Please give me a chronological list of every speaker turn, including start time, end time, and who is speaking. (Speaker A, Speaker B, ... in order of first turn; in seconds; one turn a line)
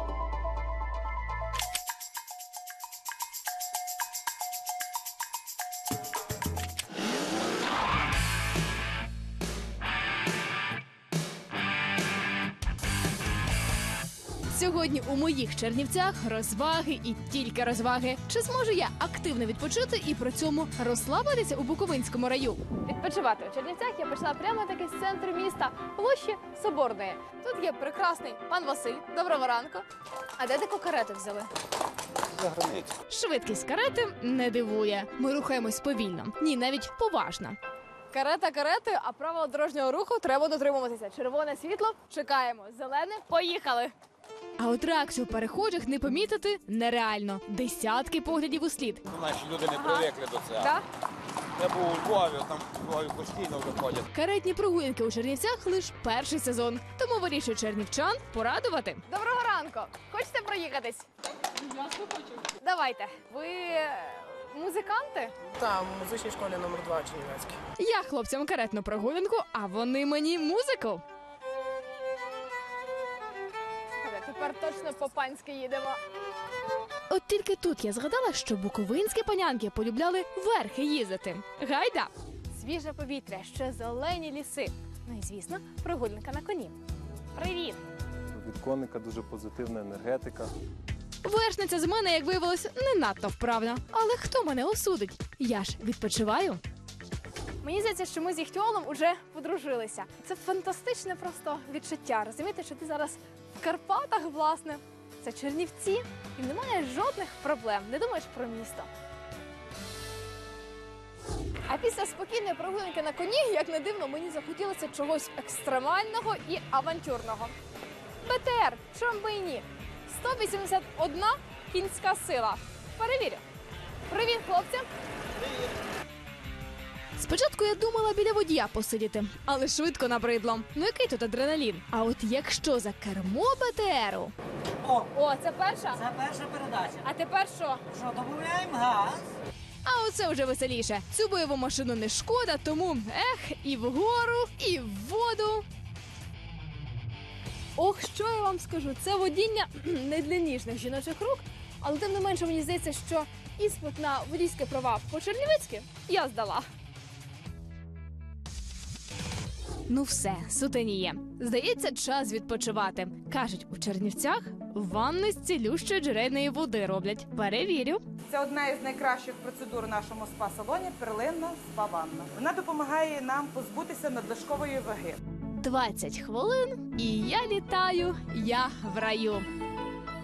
Speaker A: 14.5-29.9
Speaker A: 30.4-31.5
Speaker B: 32.4-32.9
Speaker A: 33.1-37.6
Speaker A: 38.1-43.9
Speaker A: 44.6-49.0
Speaker B: 49.1-50.8
Speaker A: 49.7-50.8
Speaker B: 51.6-54.1
Speaker A: 54.1-61.1
Speaker A: 61.7-65.3
Speaker C: 65.6-67.6
Speaker A: 67.8-71.0
Speaker A: 74.0-76.0
Speaker A: 77.1-86.8
Speaker A: 87.3-87.8
Speaker D: 88.3-90.5
Speaker A: 91.2-96.6
Speaker A: 97.6-108.9
Speaker A: 111.7-117.5
Speaker A: 118.2-123.4
Speaker A: 124.1-124.9
Speaker A: 127.2-134.3
Speaker A: 135.1-136.1
Speaker E: 136.0-137.0
Speaker A: 137.0-137.8
Speaker E: 137.9-139.2
Speaker A: 139.8-145.7
Speaker A: 147.8-156.7
Speaker A: 159.9-168.0
Speaker F: 168.3-175.2
Speaker A: 175.5-179.5